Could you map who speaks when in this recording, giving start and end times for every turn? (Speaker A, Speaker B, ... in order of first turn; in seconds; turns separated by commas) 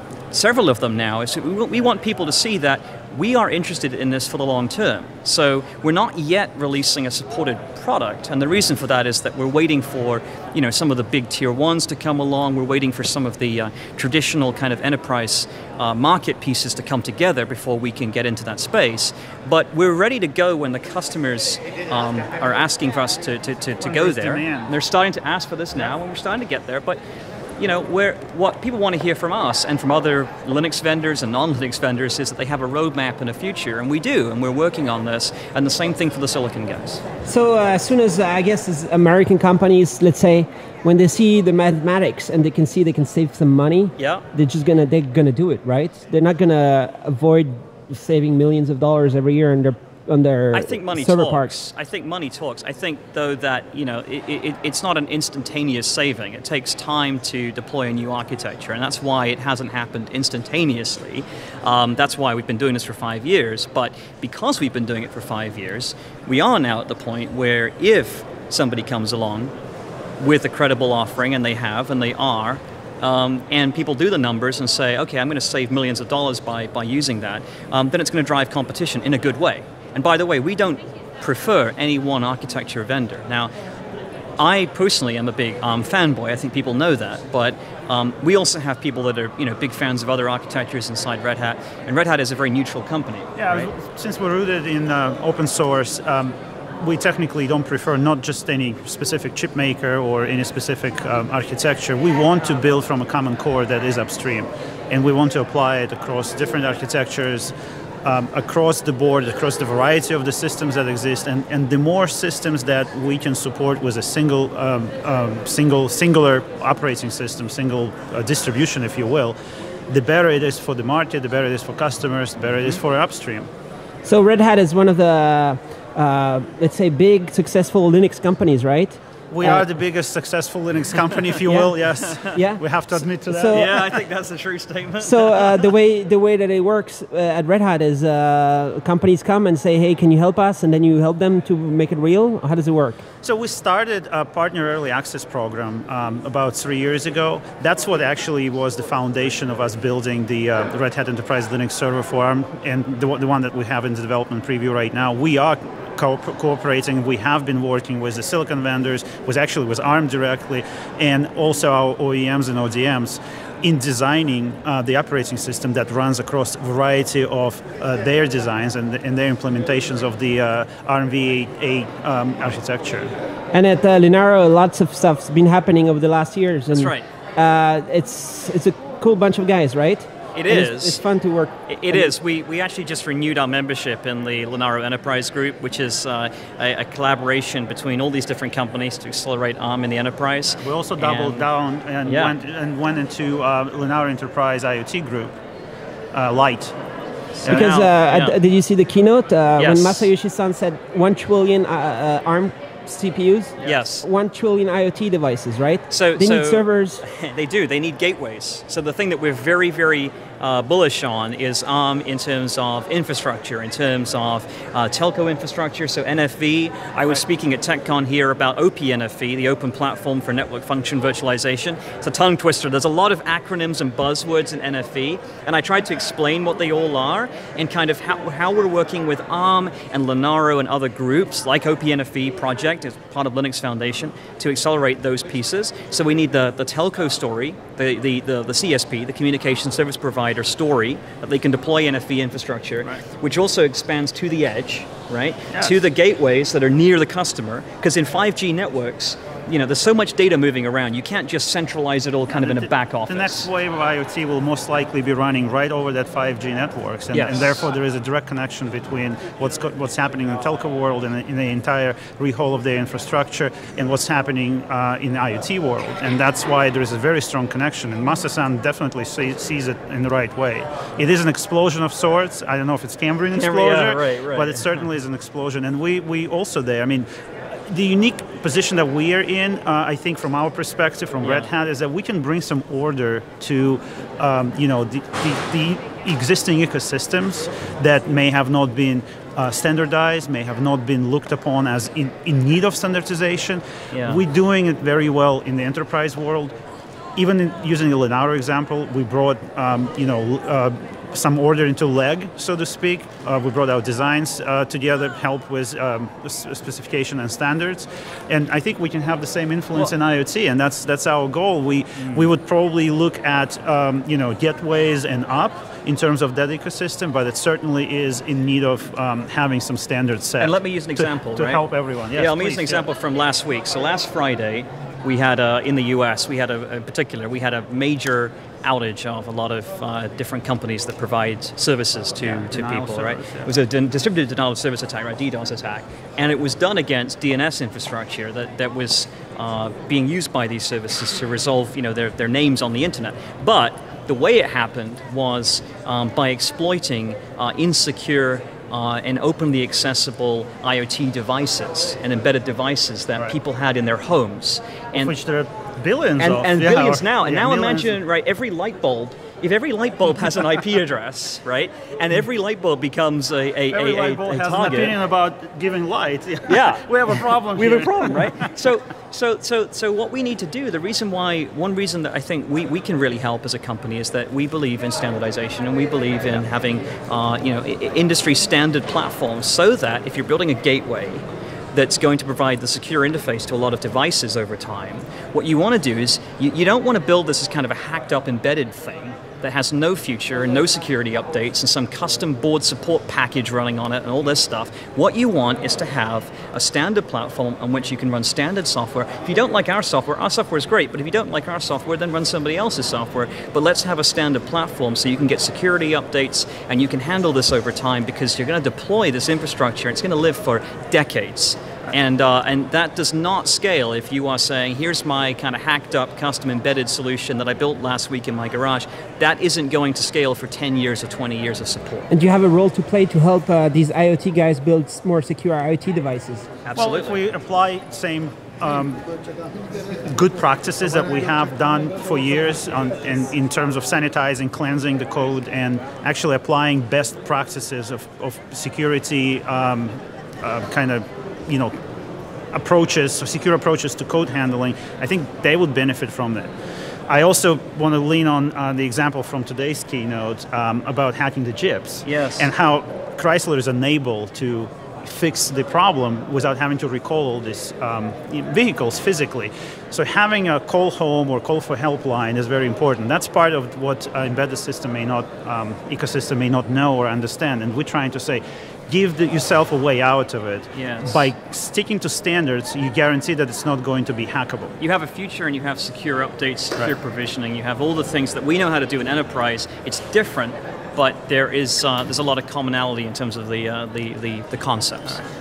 Speaker A: 0.3-27.0, Speaker B: 23.8-24.7, Speaker A: 27.6-37.0, Speaker C: 37.2-51.5, Speaker A: 44.0-44.2, Speaker A: 50.5-69.5, Speaker A: 70.2-83.5, Speaker A: 84.4-93.7, Speaker B: 93.4-119.4, Speaker B: 119.9-123.5, Speaker C: 124.0-129.6, Speaker B: 129.3-134.0, Speaker C: 131.4-131.7, Speaker A: 132.0-132.4, Speaker C: 132.3-133.8, Speaker A: 133.5-135.7, Speaker C: 135.0-143.0, Speaker B: 143.2-173.1, Speaker C: 173.5-182.1, Speaker A: 176.7-177.1, Speaker A: 180.3-181.0, Speaker A: 181.7-191.5, Speaker B: 190.6-195.4, Speaker A: 192.1-192.3, Speaker B: 196.1-196.7, Speaker A: 197.4-198.4, Speaker B: 197.4-197.7, Speaker C: 197.4-207.0, Speaker A: 199.6-200.1, Speaker A: 203.6-204.1, Speaker A: 205.9-253.5, Speaker B: 245.5-245.8, Speaker B: 252.3-277.1, Speaker A: 257.1-257.7, Speaker A: 273.3-274.8, Speaker B: 277.7-296.5, Speaker A: 281.2-281.5, Speaker A: 293.9-294.2, Speaker B: 297.1-322.9, Speaker A: 312.0-312.3, Speaker A: 320.4-355.1, Speaker B: 332.2-333.5, Speaker B: 354.9-358.0, Speaker A: 356.2-365.0, Speaker B: 363.7-368.5, Speaker A: 366.5-422.1, Speaker C: 422.1-426.5, Speaker A: 426.6-427.2, Speaker B: 426.8-429.0, Speaker B: 430.1-441.7, Speaker B: 442.5-446.5, Speaker B: 447.1-474.7, Speaker A: 452.1-452.5, Speaker A: 470.7-471.3, Speaker A: 474.8-485.2